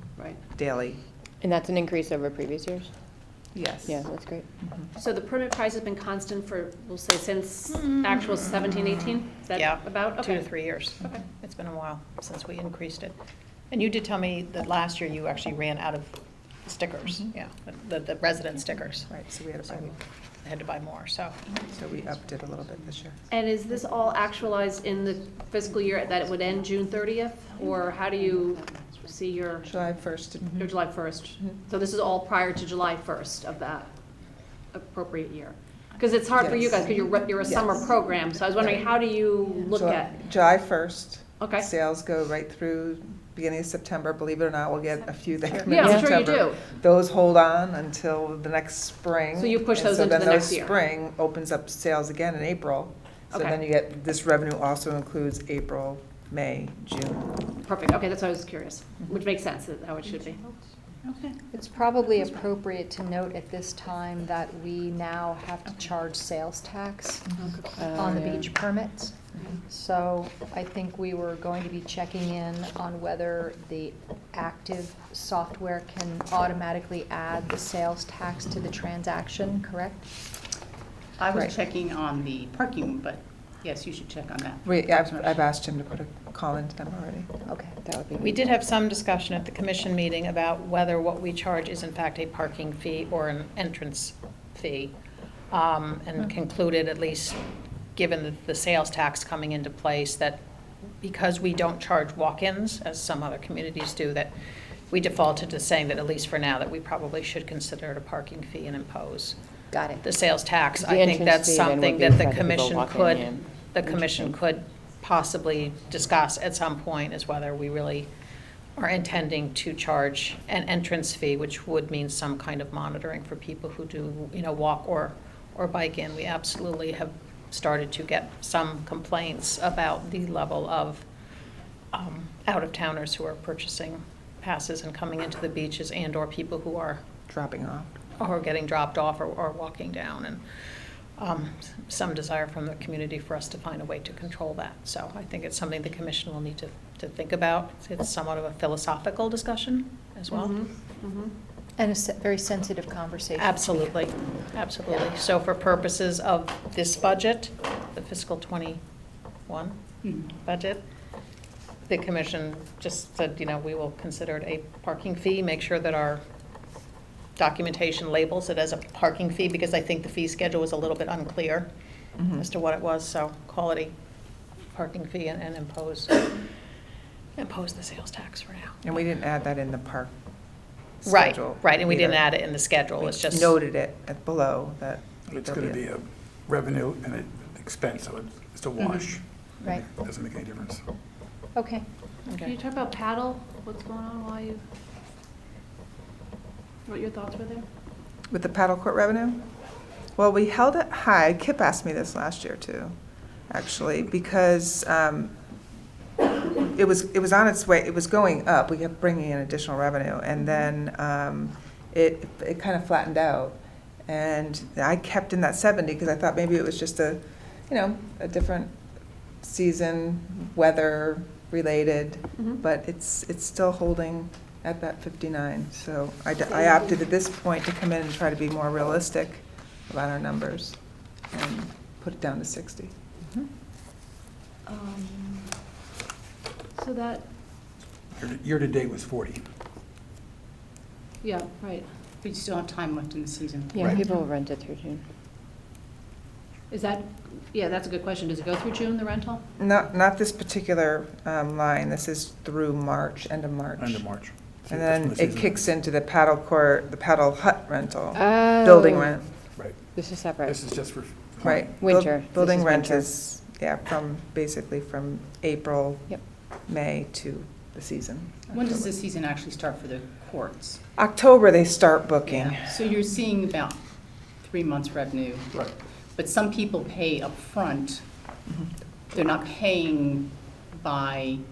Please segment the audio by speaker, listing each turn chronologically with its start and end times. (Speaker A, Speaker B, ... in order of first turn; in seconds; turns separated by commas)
Speaker A: 0.5-1.0, Speaker B: 1.4-2.9, Speaker A: 3.5-4.0, Speaker B: 3.8-4.5, Speaker C: 5.0-10.5, Speaker D: 7.7-9.0, Speaker D: 9.5-13.1, Speaker D: 13.7-19.1, Speaker A: 19.1-19.9, Speaker D: 20.4-21.4, Speaker A: 21.5-23.2, Speaker C: 23.3-29.7, Speaker E: 27.6-28.9, Speaker A: 29.6-30.7, Speaker C: 30.6-33.9, Speaker C: 34.7-40.2, Speaker A: 36.3-36.7, Speaker A: 37.4-37.8, Speaker A: 38.5-38.8, Speaker A: 39.7-57.4, Speaker C: 41.4-41.7, Speaker B: 45.5-46.1, Speaker C: 45.7-46.6, Speaker C: 49.3-50.8, Speaker C: 53.3-53.6, Speaker C: 57.6-60.4, Speaker E: 61.0-61.4, Speaker F: 61.5-80.1, Speaker C: 67.4-67.8, Speaker B: 67.8-68.4, Speaker E: 81.2-85.4, Speaker A: 84.6-87.3, Speaker F: 87.5-88.3, Speaker D: 88.2-94.9, Speaker D: 95.5-97.4, Speaker D: 97.9-100.4, Speaker D: 101.0-104.3, Speaker D: 104.9-109.4, Speaker F: 109.7-110.0, Speaker D: 110.0-118.1, Speaker B: 110.8-113.4, Speaker B: 114.1-114.3, Speaker D: 118.8-131.1, Speaker D: 131.9-137.0, Speaker A: 137.3-137.9, Speaker D: 138.2-150.6, Speaker C: 150.3-151.3, Speaker F: 151.8-153.9, Speaker D: 153.4-158.8, Speaker D: 159.5-159.8, Speaker E: 160.0-160.3, Speaker D: 160.3-160.8, Speaker D: 161.8-166.2, Speaker D: 167.4-171.7, Speaker A: 172.2-172.4, Speaker D: 172.3-173.9, Speaker D: 174.7-176.3, Speaker D: 177.3-178.8, Speaker A: 178.8-180.1, Speaker A: 181.0-182.2, Speaker D: 181.0-183.5, Speaker A: 183.0-185.8, Speaker G: 185.3-190.8, Speaker E: 188.8-189.2, Speaker F: 191.5-191.8, Speaker D: 192.3-192.5, Speaker C: 192.4-194.6, Speaker C: 196.9-197.7, Speaker A: 198.3-199.4, Speaker A: 200.1-202.9, Speaker A: 203.5-205.3, Speaker A: 206.6-218.7, Speaker A: 219.4-232.9, Speaker C: 234.7-235.5, Speaker C: 236.8-237.2, Speaker G: 238.1-239.4, Speaker C: 241.2-241.8, Speaker E: 242.2-244.2, Speaker B: 243.7-245.0, Speaker C: 246.7-249.4, Speaker A: 249.6-254.1, Speaker G: 253.8-255.7, Speaker A: 254.7-259.2, Speaker B: 258.1-259.1, Speaker G: 259.6-259.9, Speaker B: 259.9-260.6, Speaker G: 260.4-261.7, Speaker A: 261.4-268.9, Speaker B: 261.7-263.1, Speaker E: 268.5-270.8, Speaker A: 271.0-272.8, Speaker E: 272.2-273.8, Speaker E: 274.4-278.2, Speaker A: 278.5-278.8, Speaker E: 279.1-281.4